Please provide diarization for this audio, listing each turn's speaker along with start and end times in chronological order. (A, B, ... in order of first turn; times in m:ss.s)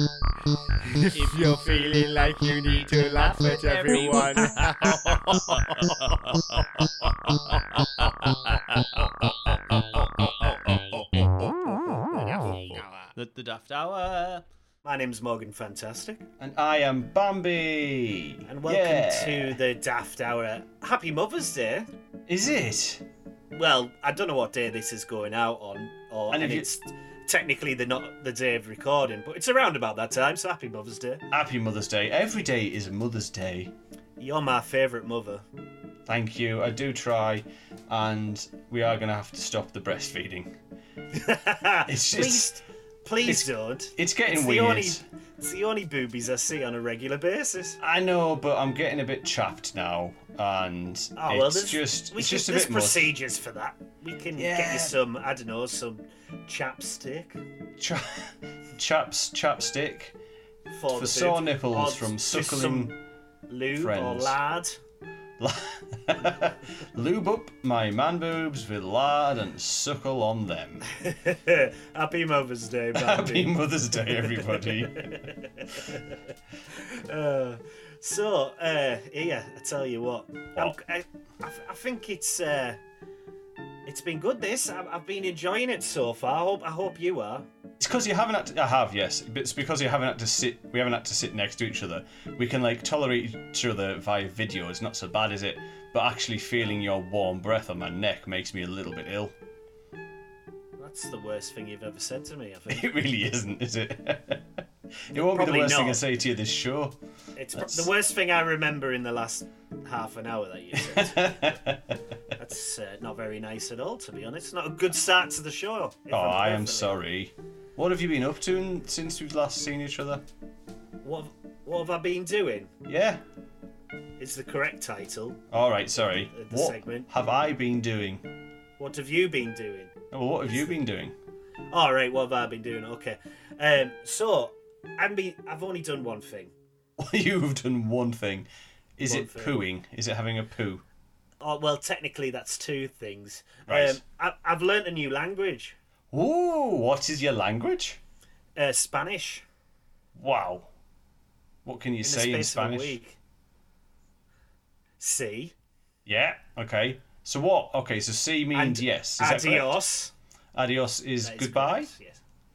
0:01.1-0:04.6 A
0:03.6-0:04.2 B
0:04.8-0:05.9 B
0:07.8-0:11.6 B
0:12.7-0:14.4 B
0:14.8-0:16.2 C
0:16.4-0:19.6 B
0:18.4-0:21.9 C
0:22.3-0:23.0 B
0:23.5-0:31.3 C
0:26.3-0:26.7 B
0:31.3-0:33.7 B
0:34.2-0:35.4 C
0:36.1-0:40.5 B
0:41.1-0:47.8 C
0:41.9-0:42.6 B
0:43.2-0:45.0 B
0:47.8-0:53.1 B
0:51.2-0:57.4 C
0:54.4-0:55.0 B
0:57.8-1:00.2 B
1:00.7-1:04.8 C
1:00.9-1:03.0 B
1:03.7-1:04.4 B
1:05.4-1:10.8 B
1:10.9-1:16.1 C
1:12.9-1:15.3 B
1:16.7-1:22.8 C
1:23.8-1:27.5 C
1:27.8-1:39.3 B
1:40.8-1:42.9 C
1:42.7-1:47.0 B
1:45.1-1:46.0 C
1:47.4-1:51.6 C
1:47.5-1:47.9 B
1:50.8-1:52.0 B
1:52.3-1:57.0 C
1:56.1-2:00.3 B
2:01.0-2:02.7 C
2:02.8-2:03.2 B
2:04.2-2:05.4 C
2:05.5-2:08.3 B
2:06.0-2:07.1 C
2:08.8-2:09.9 C
2:10.1-2:11.1 B
2:11.7-2:16.5 C
2:17.0-2:20.8 B
2:19.0-2:19.5 C
2:21.4-2:25.8 C
2:23.7-2:24.0 B
2:26.1-2:28.0 B
2:28.6-2:29.4 C
2:30.1-2:30.7 B
2:31.6-2:33.0 B
2:32.0-2:33.2 C
2:35.0-2:35.5 C
2:36.0-2:39.8 B
2:38.5-2:40.1 C
2:40.5-2:41.9 B
2:41.2-2:42.2 C